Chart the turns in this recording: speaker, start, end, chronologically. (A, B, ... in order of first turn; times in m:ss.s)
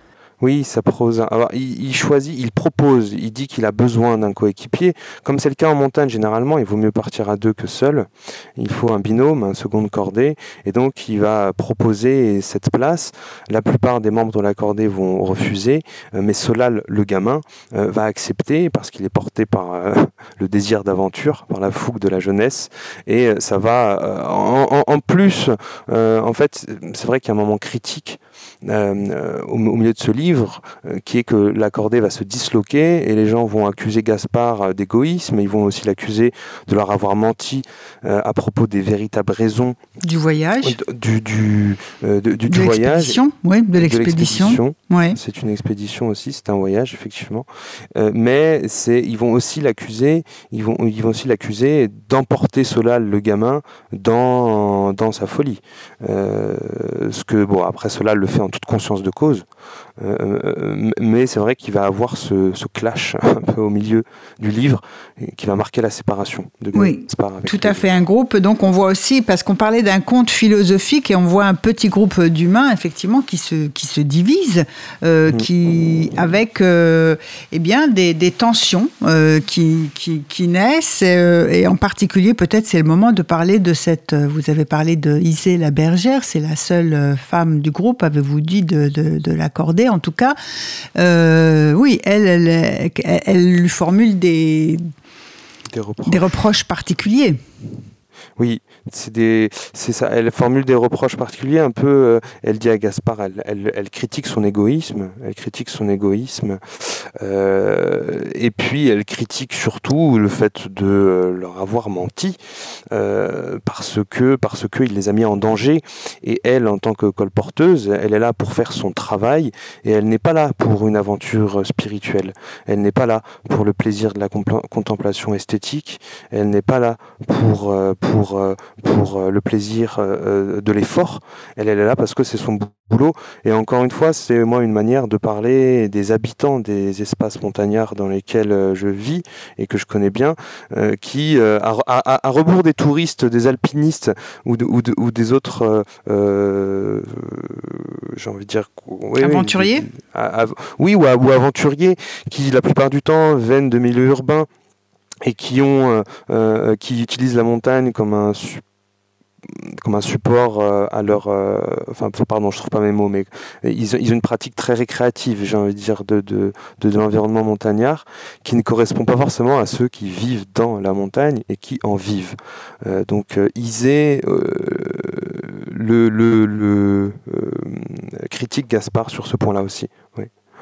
0:00.4-0:39.8 A
0:40.0-0:40.8 B
0:40.6-0:43.2 A
0:42.5-0:45.2 B
0:43.8-0:59.4 A
1:00.0-1:07.8 A
1:06.7-1:30.4 B
1:31.0-1:34.9 B
1:35.7-1:36.2 A
1:36.0-1:37.4 B
1:38.4-1:52.4 A
1:52.9-2:34.5 A
2:29.2-2:29.8 B
2:35.2-2:38.6 A
2:39.4-3:00.3 A